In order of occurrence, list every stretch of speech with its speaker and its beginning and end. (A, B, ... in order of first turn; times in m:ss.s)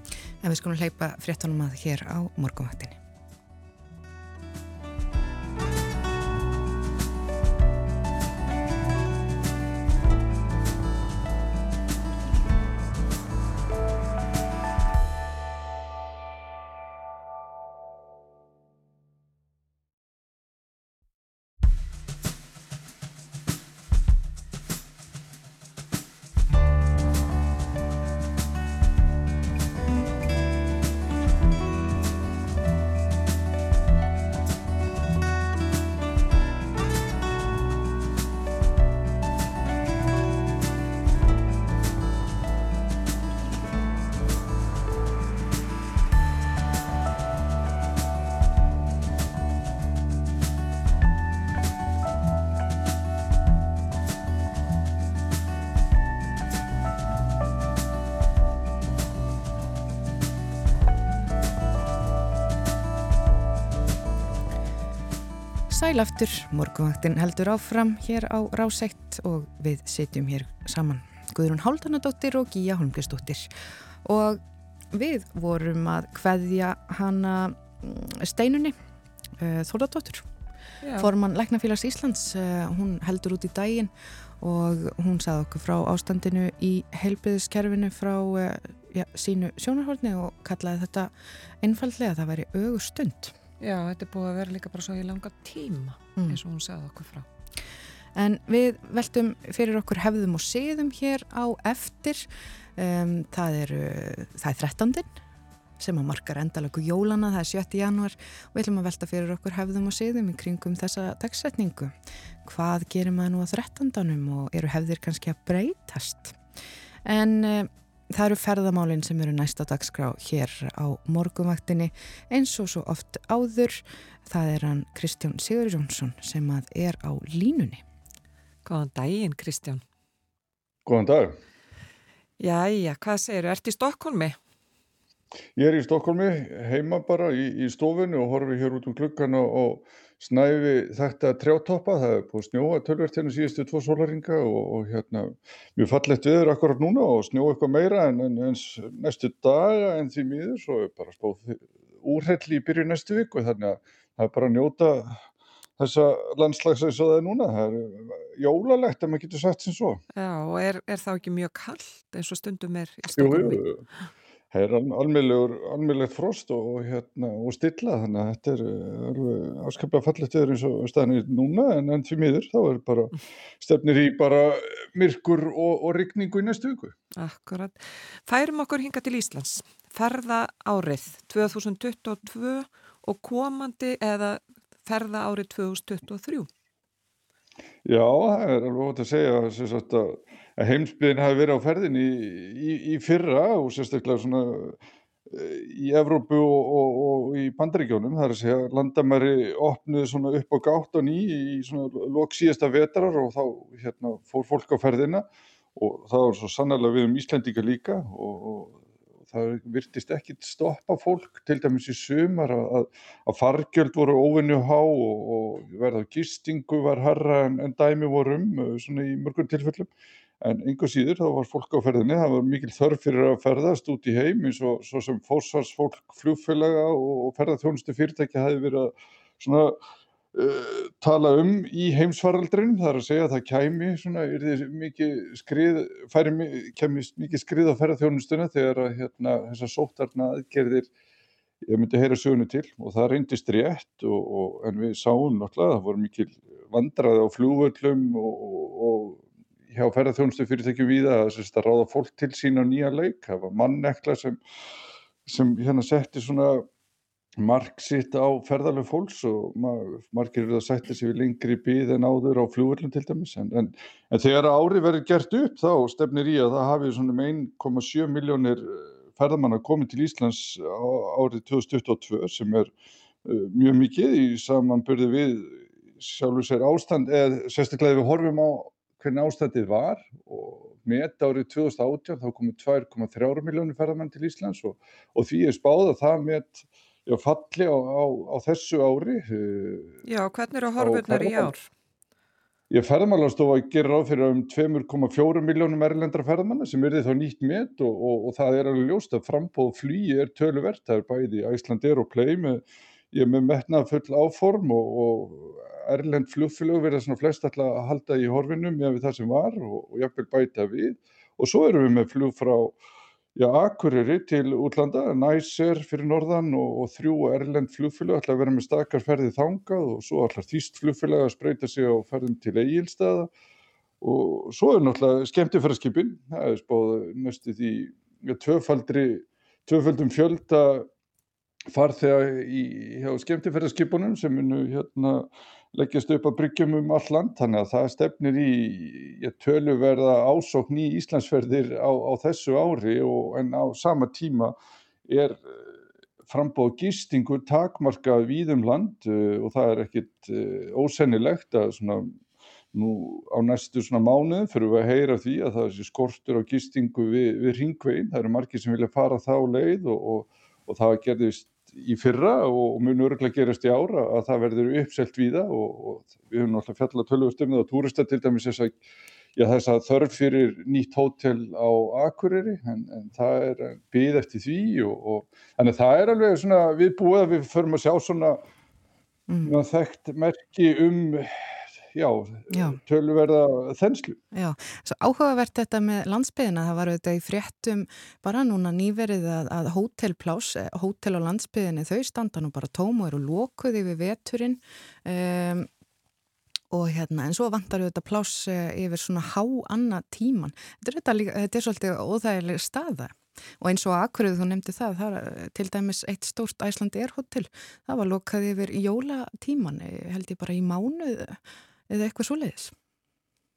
0:00.4-0:03.0 A
1:05.7-1:13.5 A
1:14.0-1:14.4 A
1:14.9-1:18.8 A
1:19.4-1:20.3 A
1:20.8-1:21.1 B
1:21.0-1:33.3 A
1:33.6-1:37.3 B
1:38.2-1:45.2 A
1:45.8-1:56.4 A
1:57.0-2:07.8 A
2:08.6-2:09.8 B
2:10.9-2:11.4 C
2:12.4-2:14.4 B
2:15.6-2:35.2 C
2:35.8-2:40.0 C
2:40.2-2:43.6 B
2:43.2-2:43.8 C
2:44.5-2:56.9 C
2:57.2-3:06.5 B
3:07.9-3:14.8 C
3:15.3-3:49.8 C
3:50.3-4:00.9 C
4:01.7-4:14.4 C
4:15.3-4:16.7 C
4:17.4-4:32.7 C
4:33.2-4:50.0 C
4:50.1-4:51.7 B
4:50.8-4:51.5 C
4:52.7-5:12.8 C
5:13.4-5:23.3 C
5:24.0-5:30.9 C
5:31.7-5:44.6 C
5:45.1-5:45.7 C
5:46.3-5:52.2 C
5:52.7-6:08.8 C
6:09.4-6:18.4 C
6:19.3-6:19.5 A
6:19.4-6:24.2 C
6:22.5-6:22.8 A
6:24.3-6:35.7 A
6:36.7-6:52.7 A